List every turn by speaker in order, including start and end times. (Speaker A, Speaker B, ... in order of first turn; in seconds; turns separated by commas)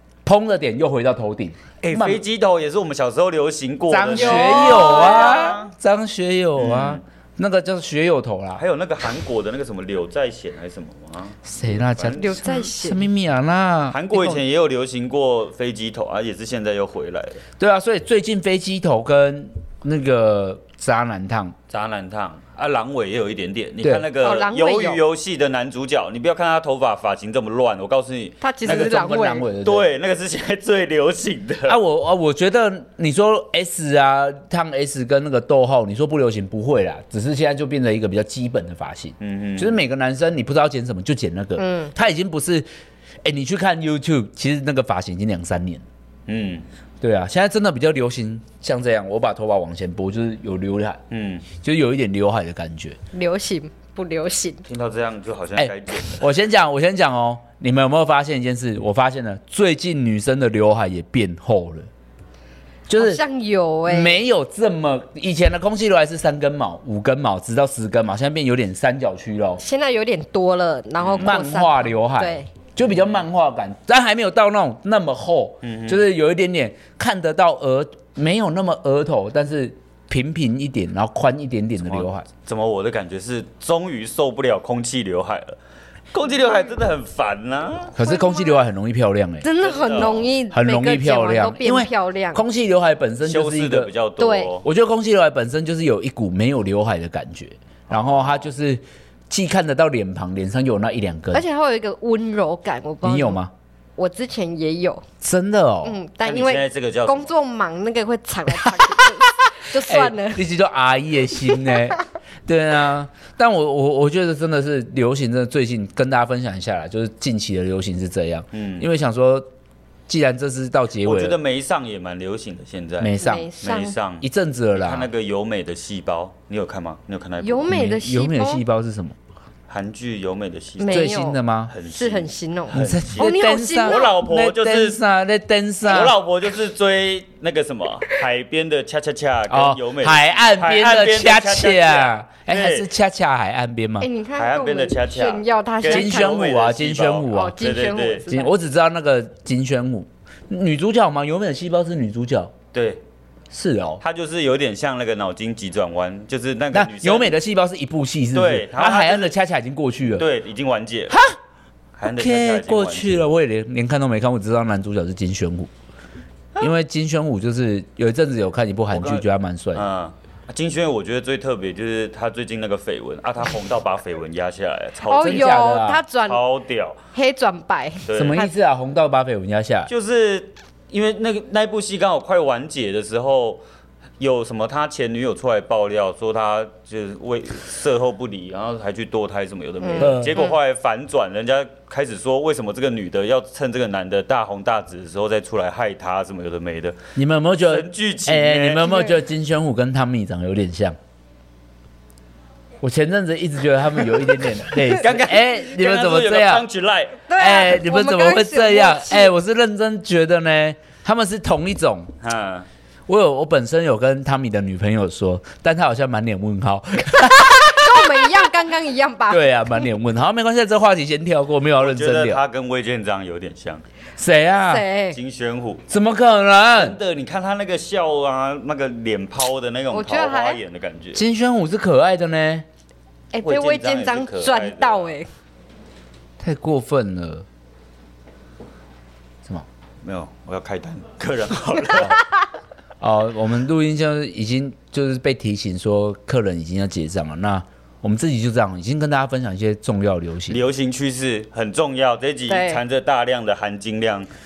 Speaker A: 0.2-2.2, Speaker B: 1.8-5.7, Speaker A: 3.9-8.6, Speaker C: 4.1-5.5, Speaker B: 6.6-7.0, Speaker B: 8.6-12.4, Speaker A: 11.4-14.4, Speaker C: 12.2-13.1, Speaker B: 13.9-17.4, Speaker A: 17.6-21.6, Speaker B: 21.7-31.8, Speaker A: 23.8-24.1, Speaker C: 24.2-25.0, Speaker C: 28.4-29.5, Speaker A: 28.6-29.9, Speaker A: 31.7-42.7, Speaker B: 39.2-39.8, Speaker C: 41.6-41.9, Speaker A: 43.2-45.8, Speaker B: 46.3-46.6, Speaker A: 47.0-51.0, Speaker B: 51.1-51.5, Speaker A: 51.6-53.0, Speaker C: 53.1-54.6, Speaker B: 54.7-56.2, Speaker A: 55.6-61.9, Speaker A: 62.9-63.2, Speaker C: 63.0-64.2, Speaker A: 63.9-69.6, Speaker C: 69.6-72.5, Speaker B: 71.0-71.4, Speaker A: 71.2-82.3, Speaker B: 75.6-76.0, Speaker B: 81.8-85.6, Speaker B: 86.1-87.9, Speaker A: 87.9-89.5, Speaker C: 88.0-88.6, Speaker C: 89.4-92.4, Speaker B: 89.6-90.3, Speaker A: 90.5-93.9, Speaker B: 93.2-94.7, Speaker C: 94.2-94.5, Speaker A: 94.6-101.4, Speaker B: 97.9-98.5, Speaker C: 101.3-103.4, Speaker A: 103.0-103.5, Speaker C: 104.0-105.0, Speaker A: 105.2-106.0, Speaker C: 105.8-110.4, Speaker B: 106.2-107.3, Speaker A: 109.7-119.5, Speaker C: 111.5-111.8, Speaker B: 118.5-118.9, Speaker A: 120.1-121.4, Speaker B: 121.0-127.8, Speaker A: 123.0-123.5, Speaker C: 123.2-124.0, Speaker A: 124.2-125.1, Speaker C: 127.4-128.6, Speaker A: 127.7-129.2, Speaker B: 129.7-131.1, Speaker C: 130.8-134.2, Speaker A: 130.9-131.7, Speaker B: 131.7-135.0, Speaker A: 132.7-136.2, Speaker B: 135.8-142.9, Speaker A: 139.5-144.1, Speaker C: 144.0-146.4, Speaker B: 144.3-148.2, Speaker A: 145.8-147.6, Speaker C: 147.3-148.5, Speaker A: 148.3-152.5, Speaker B: 152.7-153.0, Speaker A: 153.5-154.0, Speaker B: 154.0-157.4, Speaker A: 156.7-160.3, Speaker B: 158.3-159.3, Speaker B: 160.2-161.2, Speaker A: 161.1-161.4, Speaker B: 161.9-163.3, Speaker A: 162.2-165.7, Speaker A: 166.6-169.9, Speaker B: 168.9-175.6, Speaker C: 175.0-176.4, Speaker A: 175.2-176.0, Speaker B: 176.2-177.0, Speaker C: 177.1-178.5, Speaker B: 178.1-178.4, Speaker A: 178.1-179.9, Speaker B: 179.9-183.6, Speaker B: 184.2-197.0, Speaker C: 189.8-190.6, Speaker A: 190.0-190.3, Speaker A: 197.2-201.0, Speaker B: 197.6-199.0, Speaker C: 198.8-199.2, Speaker A: 202.8-206.7, Speaker B: 204.8-207.2, Speaker C: 207.2-209.3, Speaker A: 207.4-212.1, Speaker B: 212.2-212.7, Speaker A: 213.1-218.3, Speaker C: 217.3-219.8, Speaker A: 219.3-222.4, Speaker B: 221.8-223.8, Speaker A: 224.2-224.8, Speaker C: 224.6-225.2, Speaker B: 225.1-225.8, Speaker A: 225.9-227.0, Speaker B: 226.7-231.2, Speaker C: 229.9-230.6, Speaker A: 231.2-232.7, Speaker C: 233.3-235.3, Speaker B: 233.4-235.2, Speaker A: 236.4-237.4, Speaker B: 240.0-242.2, Speaker A: 243.0-250.6, Speaker B: 250.5-254.3, Speaker C: 252.5-252.8